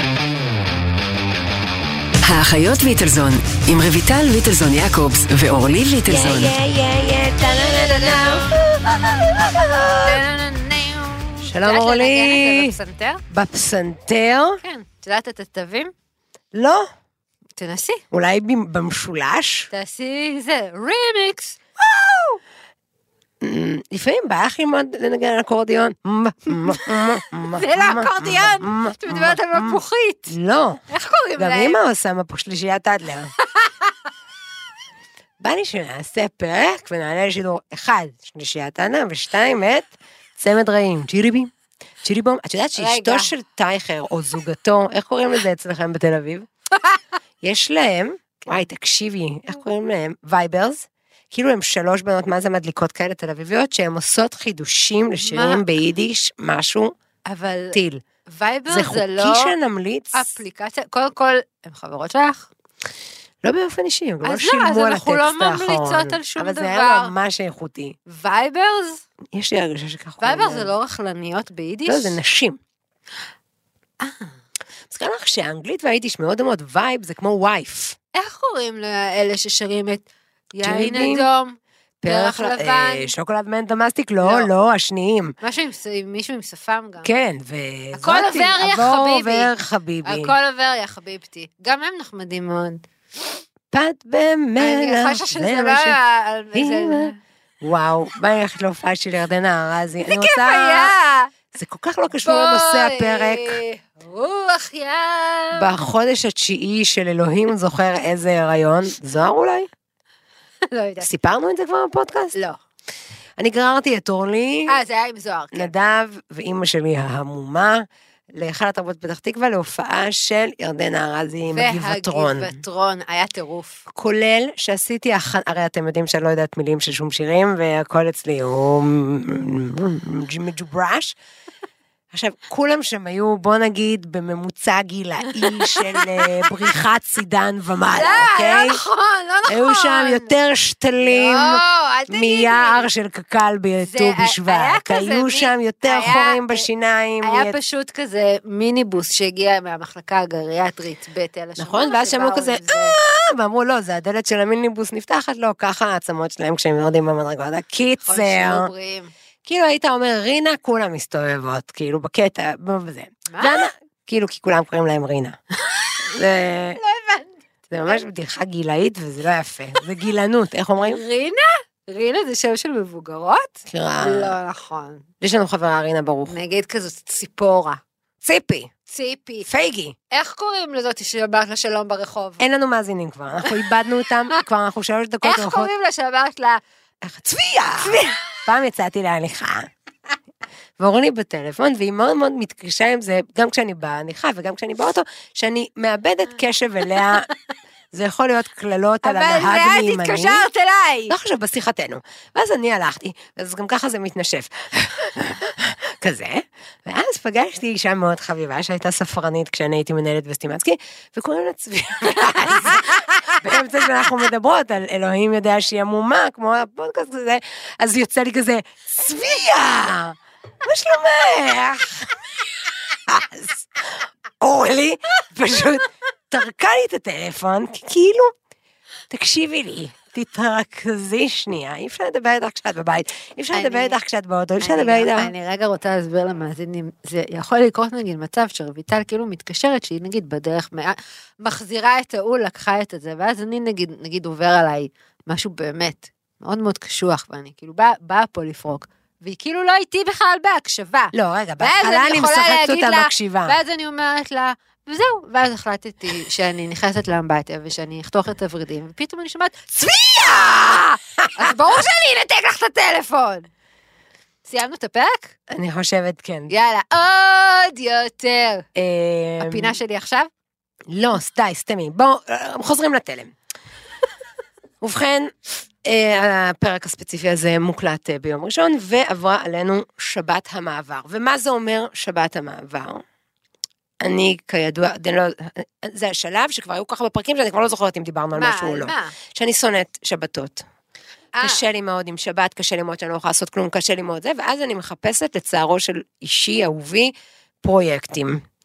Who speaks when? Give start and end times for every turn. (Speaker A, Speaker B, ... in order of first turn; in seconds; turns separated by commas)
Speaker A: 2.3-6.5, Speaker B: 6.0-10.2, Speaker C: 7.6-8.6, Speaker C: 10.0-13.2, Speaker B: 11.4-12.8, Speaker B: 13.3-14.6, Speaker C: 14.6-15.9, Speaker B: 16.5-16.9, Speaker C: 17.6-18.0, Speaker B: 18.1-19.7, Speaker C: 19.7-21.6, Speaker B: 21.8-22.4, Speaker B: 23.4-30.8, Speaker C: 27.4-30.3, Speaker C: 30.9-31.8, Speaker B: 31.4-33.3, Speaker C: 33.5-33.9, Speaker B: 35.4-41.5, Speaker B: 42.0-46.5, Speaker C: 42.8-43.3, Speaker B: 47.4-56.9, Speaker C: 55.2-55.6, Speaker C: 57.2-59.5, Speaker B: 57.7-58.0, Speaker B: 58.7-60.3, Speaker C: 60.1-62.5, Speaker B: 63.4-68.0, Speaker C: 64.2-67.1, Speaker C: 68.1-69.0, Speaker B: 69.3-70.7, Speaker C: 70.2-72.2, Speaker B: 71.9-72.6, Speaker C: 74.0-74.3, Speaker B: 74.9-78.0, Speaker C: 78.1-83.1, Speaker B: 80.6-81.3, Speaker B: 82.0-85.3, Speaker C: 84.2-84.5, Speaker C: 85.4-87.1, Speaker B: 87.0-90.3, Speaker C: 87.9-89.5, Speaker C: 90.0-92.8, Speaker B: 93.7-96.0, Speaker C: 94.6-97.2, Speaker B: 96.5-100.9, Speaker C: 100.0-101.3, Speaker B: 101.5-103.6, Speaker C: 102.2-105.7, Speaker B: 105.5-109.7, Speaker C: 110.7-111.1, Speaker B: 111.0-112.3, Speaker C: 112.3-112.6, Speaker B: 113.4-114.8, Speaker C: 114.7-115.7, Speaker B: 115.5-122.5, Speaker C: 121.5-123.8, Speaker B: 123.9-131.1, Speaker B: 132.1-138.8, Speaker C: 135.4-136.3, Speaker C: 137.9-140.3, Speaker B: 139.5-147.6, Speaker C: 141.0-142.9, Speaker C: 143.8-146.6, Speaker C: 147.2-152.9, Speaker B: 151.6-158.7, Speaker C: 158.0-159.1, Speaker B: 159.4-165.4, Speaker C: 163.3-163.7, Speaker C: 165.6-166.2, Speaker B: 166.0-166.8, Speaker C: 166.7-168.0, Speaker B: 167.7-171.0, Speaker C: 170.8-175.0, Speaker B: 173.7-174.4, Speaker B: 175.2-176.3, Speaker C: 176.3-177.8, Speaker B: 178.2-178.7, Speaker C: 178.9-179.5, Speaker B: 179.4-179.9, Speaker C: 180.1-182.4, Speaker B: 182.4-185.7, Speaker C: 185.2-186.6, Speaker B: 187.0-189.7, Speaker C: 187.8-188.1, Speaker B: 190.8-197.3, Speaker B: 197.9-200.4, Speaker C: 199.0-201.2, Speaker B: 201.1-222.1, Speaker B: 223.1-228.3, Speaker B: 229.1-235.3, Speaker C: 233.5-233.9, Speaker C: 234.6-259.8, Speaker B: 251.1-253.6, Speaker B: 259.8-261.5, Speaker C: 260.3-263.5, Speaker C: 264.4-265.3, Speaker B: 265.5-266.5, Speaker C: 266.5-268.6, Speaker B: 268.7-269.8, Speaker C: 269.4-270.3, Speaker B: 270.9-273.3, Speaker B: 274.8-283.0, Speaker B: 284.0-290.6, Speaker C: 288.3-289.1, Speaker C: 291.3-291.6, Speaker B: 291.4-298.4